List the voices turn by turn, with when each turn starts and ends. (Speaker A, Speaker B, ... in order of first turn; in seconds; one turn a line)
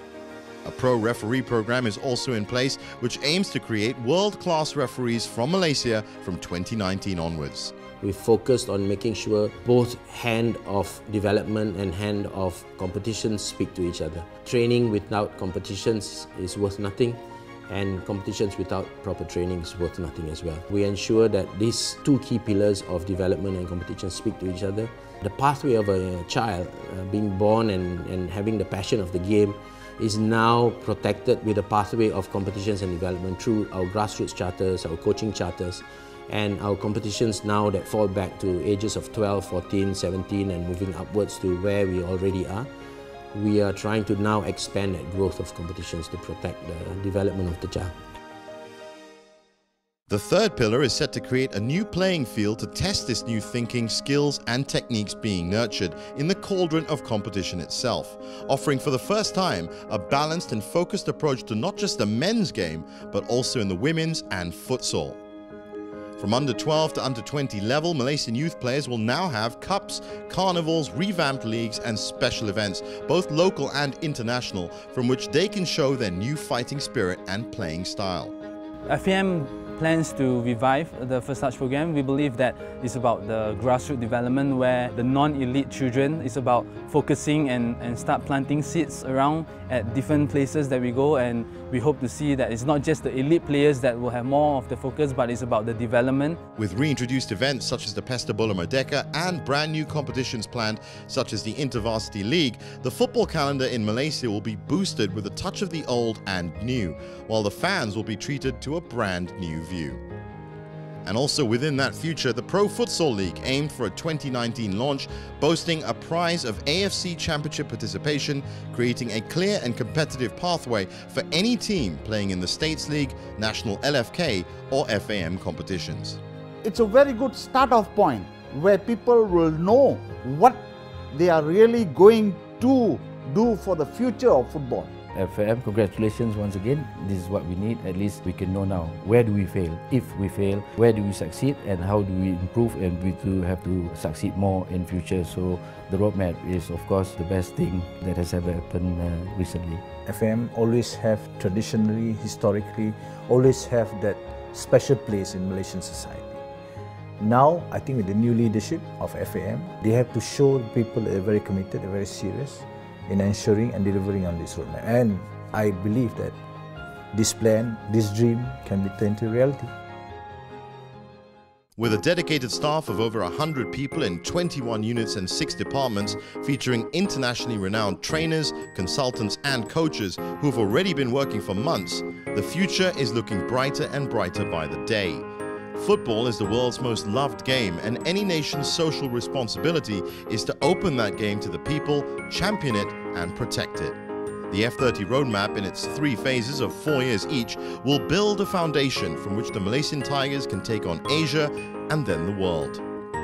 Speaker A: 0.6-7.8
Speaker B: 8.0-42.7
Speaker B: 43.3-47.9
Speaker A: 50.1-65.2
Speaker A: 66.2-78.3
Speaker C: 78.9-96.4
Speaker A: 96.6-110.0
Speaker A: 111.0-126.2
Speaker D: 126.6-134.9
Speaker E: 135.1-149.8
Speaker F: 150.1-156.4
Speaker F: 157.2-166.3
Speaker F: 167.1-169.7
Speaker A: 171.8-185.2
Speaker A: 185.8-194.0
Speaker A: 194.5-202.8